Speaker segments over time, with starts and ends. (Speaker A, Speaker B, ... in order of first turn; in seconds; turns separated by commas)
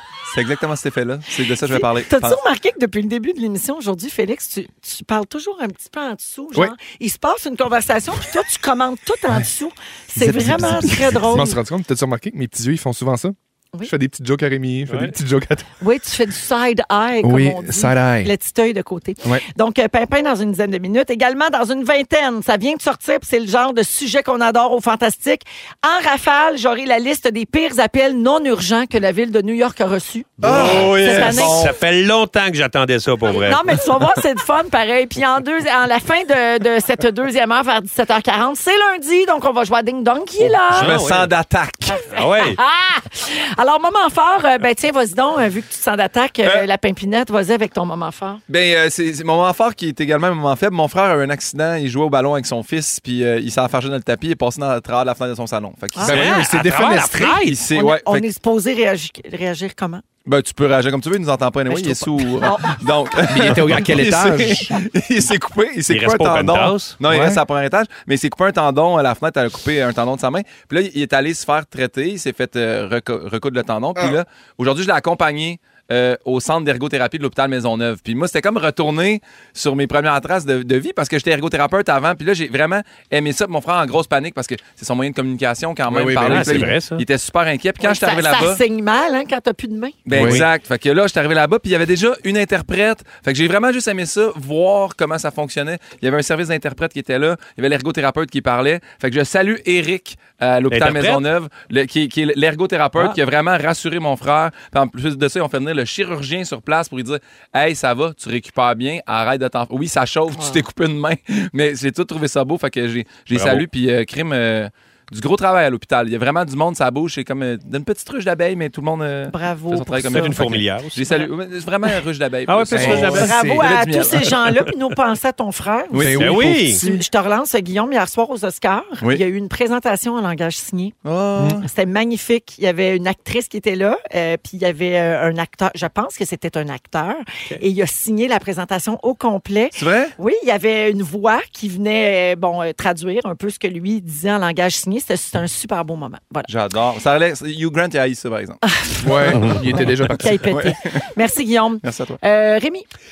Speaker A: 0.3-2.4, Speaker B: 1.7-11.6, Speaker C: 10.2-15.7, Speaker D: 14.9-15.1, Speaker B: 15.8-31.6, Speaker C: 17.2-18.3, Speaker A: 30.4-31.7, Speaker D: 30.4-33.8, Speaker B: 33.3-40.9, Speaker D: 40.7-41.3, Speaker A: 40.7-42.0, Speaker B: 41.9-48.4, Speaker D: 42.1-42.6, Speaker A: 48.5-56.4, Speaker C: 56.0-57.5, Speaker D: 56.1-57.6, Speaker A: 57.4-58.3, Speaker B: 57.7-60.0, Speaker A: 60.2-88.6, Speaker B: 62.4-62.8, Speaker C: 63.3-64.8, Speaker D: 65.9-67.0, Speaker C: 67.0-67.4, Speaker C: 85.9-86.7, Speaker D: 86.2-87.0, Speaker B: 87.8-90.0, Speaker A: 90.0-124.4, Speaker C: 90.1-90.5, Speaker D: 90.1-90.5, Speaker D: 100.7-101.2, Speaker B: 110.3-110.6, Speaker D: 113.3-113.6, Speaker B: 119.3-120.4, Speaker D: 120.1-121.3, Speaker D: 122.5-123.4, Speaker C: 122.7-123.7, Speaker B: 122.9-130.9, Speaker A: 125.9-126.4, Speaker C: 125.9-127.0, Speaker D: 126.2-126.8, Speaker A: 131.1-131.7, Speaker B: 131.6-146.5, Speaker A: 139.7-140.1, Speaker A: 146.5-148.6, Speaker B: 148.6-152.8, Speaker C: 149.0-150.5, Speaker A: 149.3-151.0, Speaker A: 151.8-152.2